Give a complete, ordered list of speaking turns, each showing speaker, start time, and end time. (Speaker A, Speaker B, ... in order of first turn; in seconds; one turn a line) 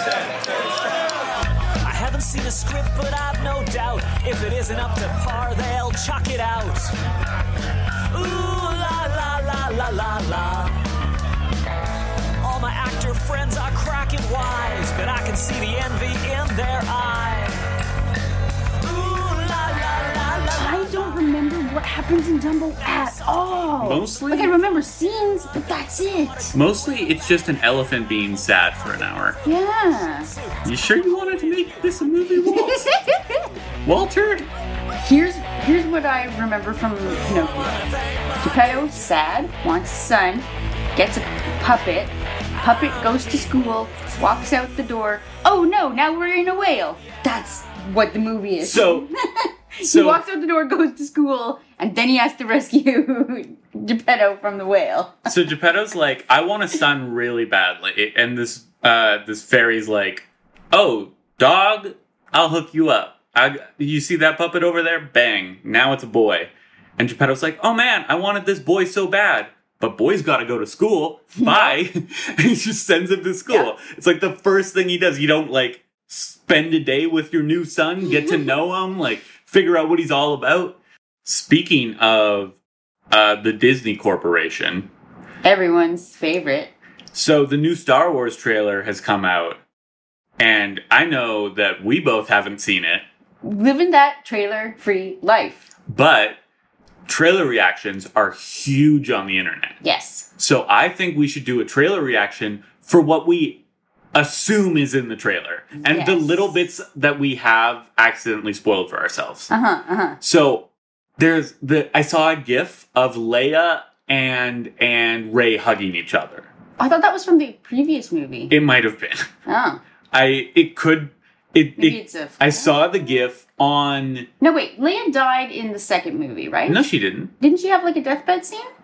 Speaker A: 1.8-6.9
Speaker A: 8.1-10.8
Speaker A: 12.4-17.6
Speaker A: 18.8-27.3
Speaker B: 20.5-26.6
Speaker C: 23.8-24.6
Speaker C: 26.5-29.4
Speaker A: 28.8-32.7
Speaker B: 29.4-30.3
Speaker C: 30.6-32.9
Speaker B: 32.4-33.5
Speaker C: 33.9-34.5
Speaker B: 35.0-37.9
Speaker A: 37.1-38.9
Speaker B: 38.4-55.3
Speaker A: 42.6-44.0
Speaker C: 48.6-49.1
Speaker C: 49.8-50.2
Speaker C: 55.3-82.6
Speaker B: 71.3-71.8
Speaker B: 78.1-78.5
Speaker C: 83.1-84.9
Speaker B: 85.4-86.7
Speaker C: 87.1-89.6
Speaker C: 90.4-93.0
Speaker B: 93.4-95.7
Speaker C: 95.9-96.4
Speaker C: 97.1-99.8
Speaker B: 99.8-100.3
Speaker C: 100.4-103.6
Speaker C: 104.1-109.5
Speaker B: 105.8-106.5
Speaker B: 109.5-110.2
Speaker C: 110.2-116.5
Speaker B: 116.8-118.6
Speaker C: 118.5-119.3
Speaker B: 119.5-119.8
Speaker C: 120.1-124.3
Speaker B: 121.8-122.8
Speaker B: 124.4-126.9
Speaker C: 126.7-127.3
Speaker B: 127.4-128.7